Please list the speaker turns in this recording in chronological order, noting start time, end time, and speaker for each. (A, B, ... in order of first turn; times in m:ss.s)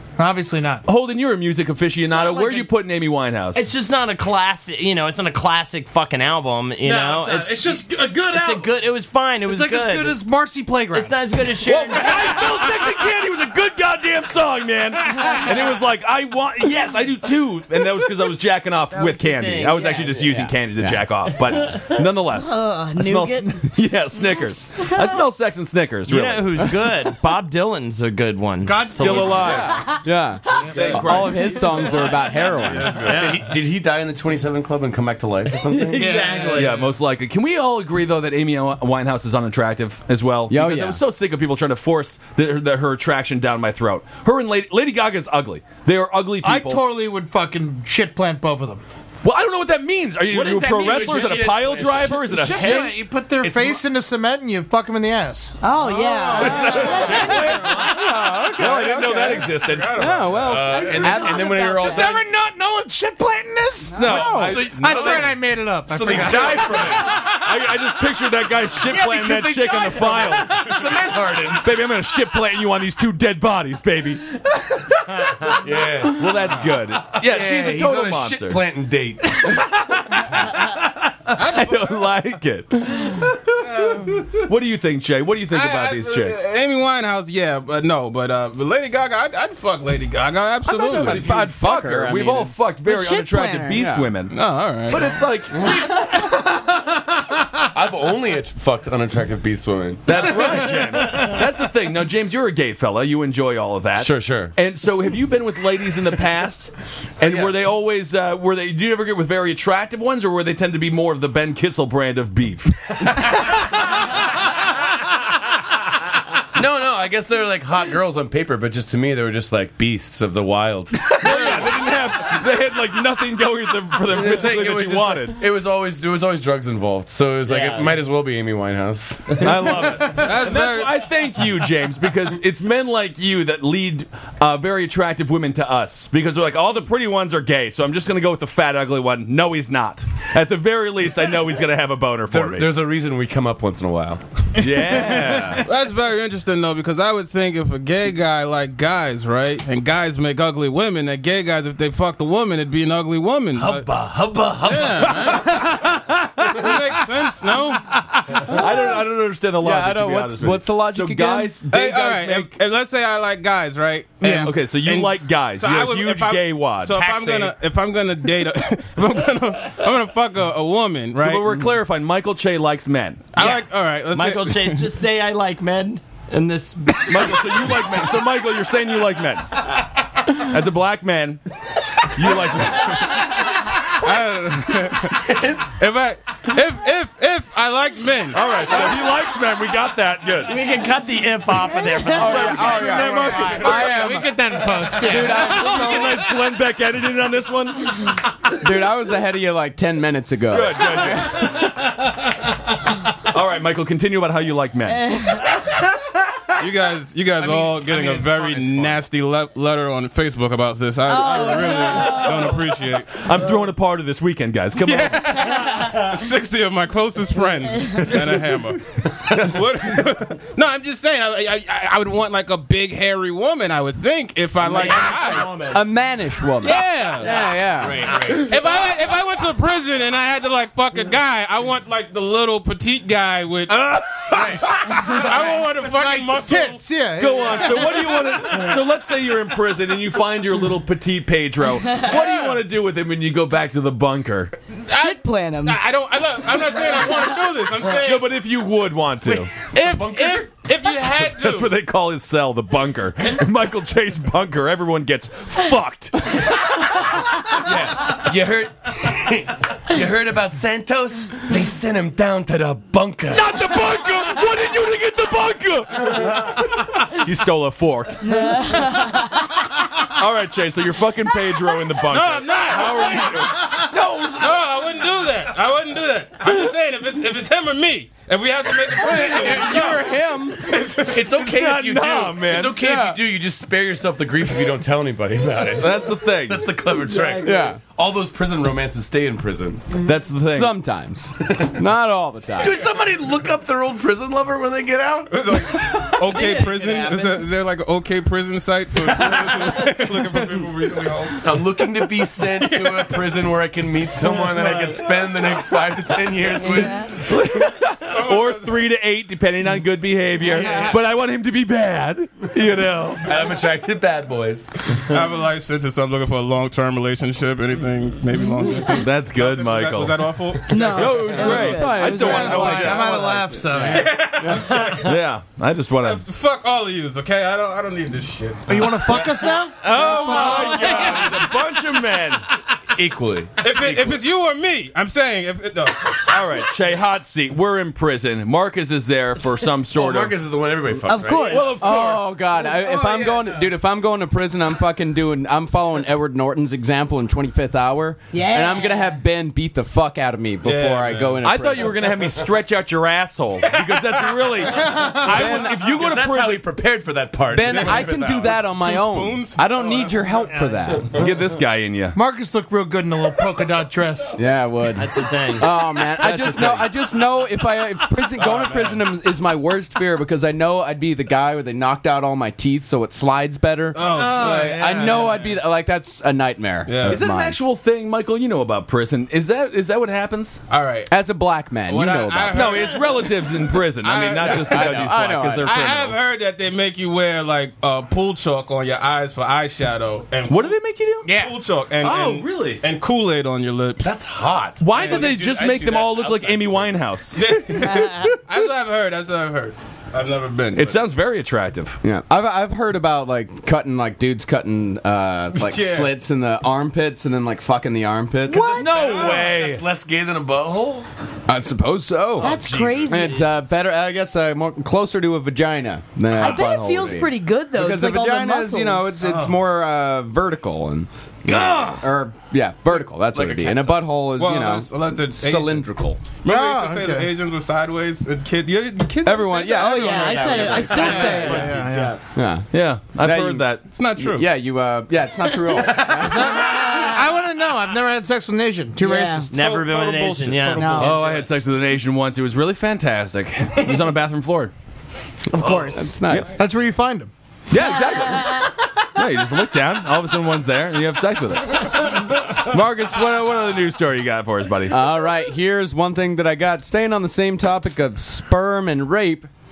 0:00.2-0:00.8 A
0:00.8-0:03.7 B
0:02.2-0:02.6 C
0:03.5-0:10.2 C
0:06.8-0:08.7 A
0:09.4-0:11.2 A
0:10.9-0:12.6 C
0:11.6-0:26.6 B
0:18.9-0:20.4 C
0:20.3-0:21.0 D
0:21.7-0:21.9 C
0:22.3-0:23.6 E
0:26.1-0:29.6 C
0:28.6-0:29.7 A
0:28.9-0:29.8 B
0:29.2-0:33.0 D
0:30.7-0:31.9 B
0:30.7-0:31.1 F
0:32.6-0:36.5 F
0:33.1-0:33.4 C
0:35.7-0:36.8 C
0:35.9-0:36.6 A
0:36.4-0:46.8 B
0:40.5-0:41.0 D
0:46.4-0:48.8 A
0:49.2-0:53.0 B
0:50.3-0:52.8 F
0:50.7-0:51.8 C
0:52.3-0:55.6 A
0:53.4-0:53.8 F
0:55.6-0:57.9 E
0:56.3-0:57.1 D
0:56.3-1:00.0 B
0:57.9-1:02.2 F
0:57.9-0:59.4 D
0:59.6-1:00.7 G
1:00.0-1:01.8 D
1:00.9-1:02.1 E
1:01.6-1:07.5 A
1:03.9-1:05.3 B
1:04.0-1:04.6 D
1:04.2-1:07.2 F
1:07.2-1:10.8 B
1:08.8-1:11.8 F
1:11.5-1:14.4 B
1:15.5-1:19.6 F
1:16.0-1:18.6 B
1:21.3-1:23.4 B
1:21.4-1:22.0 G
1:23.6-1:24.2 G
1:24.2-1:26.4 B
1:25.5-1:31.5 G
1:30.7-1:34.3 B
1:30.8-1:32.6 D
1:32.8-1:33.8 E
1:33.7-1:34.1 D
1:34.3-1:35.2 G
1:34.9-1:36.0 B
1:37.7-1:40.4 F
1:40.0-1:53.3 B
1:44.0-1:44.5 F
1:47.2-1:47.5 F
1:56.5-2:01.6 F
2:01.1-2:05.4 B
2:04.1-2:09.6 F
2:07.4-2:08.0 C
2:09.4-2:22.7 B
2:09.9-2:11.0 G
2:22.3-2:24.4 F
2:24.6-2:25.6 B
2:25.6-2:33.9 G
2:33.5-2:35.3 F
2:34.6-2:35.8 G
2:35.0-2:36.7 B
2:36.5-2:37.9 G
2:38.3-2:42.5 B
2:39.6-2:41.6 D
2:41.7-2:51.6 G
2:44.2-2:44.5 A
2:44.4-2:47.1 B
2:46.9-2:47.5 C
2:51.2-2:53.3 B
2:53.3-2:55.0 G
2:53.4-2:57.8 C
2:57.0-2:59.6 B
3:00.2-3:01.4 B
3:02.0-3:03.3 B
3:03.1-3:08.5 G
3:08.3-3:10.6 B
3:10.4-3:13.9 C
3:12.1-3:14.3 B
3:12.2-3:14.3 D
3:13.2-3:15.6 A
3:14.9-3:18.2 B
3:15.0-3:16.2 D
3:18.6-3:21.4 D
3:20.5-3:22.1 B
3:23.1-3:25.1 B
3:26.6-3:33.3 G
3:31.1-3:32.7 E
3:33.1-3:35.6 B
3:34.7-3:45.6 G
3:44.6-3:45.8 C
3:45.7-3:48.2 D
3:46.6-3:47.4 G
3:47.2-3:48.4 C
3:47.7-3:48.5 F
3:48.2-3:54.0 G
3:53.7-3:55.3 B
3:54.3-3:54.6 C
3:54.5-3:56.8 G
3:55.6-3:58.2 A
3:57.2-4:04.6 B
4:04.9-4:08.3 G
4:04.9-4:05.8 E
4:07.9-4:09.5 B
4:09.6-4:11.8 G
4:09.7-4:10.6 F
4:11.1-4:16.6 B
4:17.4-4:18.2 B
4:17.4-4:23.7 F
4:23.3-4:29.0 B
4:28.3-4:29.3 E
4:30.0-4:34.6 B
4:32.0-4:41.3 G
4:38.9-4:40.8 D
4:41.1-4:50.0 F
4:41.3-4:42.8 B
4:42.8-4:43.2 D
4:45.7-4:46.8 B
4:46.8-4:47.7 C
4:47.4-4:47.8 D
4:49.9-4:50.8 B
4:50.5-4:52.8 D
4:52.6-4:55.5 F
4:55.3-5:03.5 G
4:55.9-4:57.5 C
5:01.4-5:07.1 F
5:04.2-5:05.6 G
5:06.7-5:07.1 E
5:07.2-5:13.4 B
5:08.0-5:08.8 G
5:10.4-5:10.9 G
5:13.2-5:14.7 F
5:15.0-5:21.6 G
5:18.9-5:20.2 B
5:20.7-5:22.7 E
5:20.9-5:23.2 B
5:21.3-5:24.8 D
5:22.1-5:24.3 A
5:23.0-5:25.2 G
5:25.0-5:26.2 B
5:26.0-5:29.7 G
5:28.7-5:31.4 A
5:29.8-5:32.4 B
5:30.3-5:31.3 G
5:32.9-5:34.2 F
5:33.6-5:36.4 G
5:36.3-5:40.4 B
5:39.9-5:41.7 F
5:41.0-5:41.8 E
5:41.4-5:42.4 B
5:41.8-5:52.0 D
5:42.6-5:43.5 G
5:48.3-5:49.2 E
5:50.6-5:51.4 G
5:51.4-5:56.7 B
5:53.8-5:54.5 G
5:54.8-5:55.2 A
5:55.2-5:55.8 D
5:55.3-5:58.6 F
5:57.5-6:01.2 D
5:57.6-6:00.4 G
6:01.1-6:02.2 B
6:02.1-6:04.4 A
6:04.4-6:17.6 D
6:05.0-6:05.7 C
6:06.2-6:06.9 B
6:08.4-6:09.0 G
6:13.9-6:15.6 G
6:14.1-6:15.2 A
6:16.8-6:17.2 G
6:17.0-6:20.6 B
6:20.7-6:21.1 G
6:21.1-6:22.8 D
6:21.8-6:34.2 G
6:22.5-6:26.2 B
6:24.5-6:25.9 D
6:30.5-6:31.3 B
6:32.0-6:32.8 B
6:34.0-6:37.0 F
6:34.8-6:37.4 B
6:34.9-6:35.4 G
6:37.3-6:41.1 G
6:37.7-6:38.4 E
6:40.7-6:42.0 B
6:42.0-6:48.7 D
6:45.6-6:46.2 G
6:48.4-6:49.1 E
6:48.7-6:51.1 F
6:48.8-6:49.8 B
6:51.5-7:06.2 D
6:52.4-6:53.6 E
6:52.4-6:53.3 F
6:56.3-6:59.2 E
6:59.2-6:59.6 G
7:01.4-7:02.0 F
7:01.5-7:01.9 C
7:03.3-7:04.1 F
7:04.2-7:05.9 G
7:06.4-7:12.2 G
7:06.4-7:07.3 A
7:09.2-7:11.3 D
7:09.7-7:11.8 E
7:10.4-7:11.7 F
7:10.8-7:12.2 C
7:10.9-7:12.1 A
7:12.3-7:16.6 D
7:12.7-7:13.8 B
7:13.9-7:14.5 G
7:15.9-7:19.9 A
7:16.8-7:17.1 E
7:19.0-7:19.5 E
7:19.5-7:21.2 C
7:19.6-7:21.4 G
7:20.7-7:21.2 E
7:21.0-7:24.7 B
7:25.5-7:26.2 E
7:25.6-7:26.5 B
7:25.9-7:26.6 D
7:26.5-7:27.3 A
7:27.7-7:35.1 B
7:28.1-7:28.5 E
7:34.9-7:39.5 D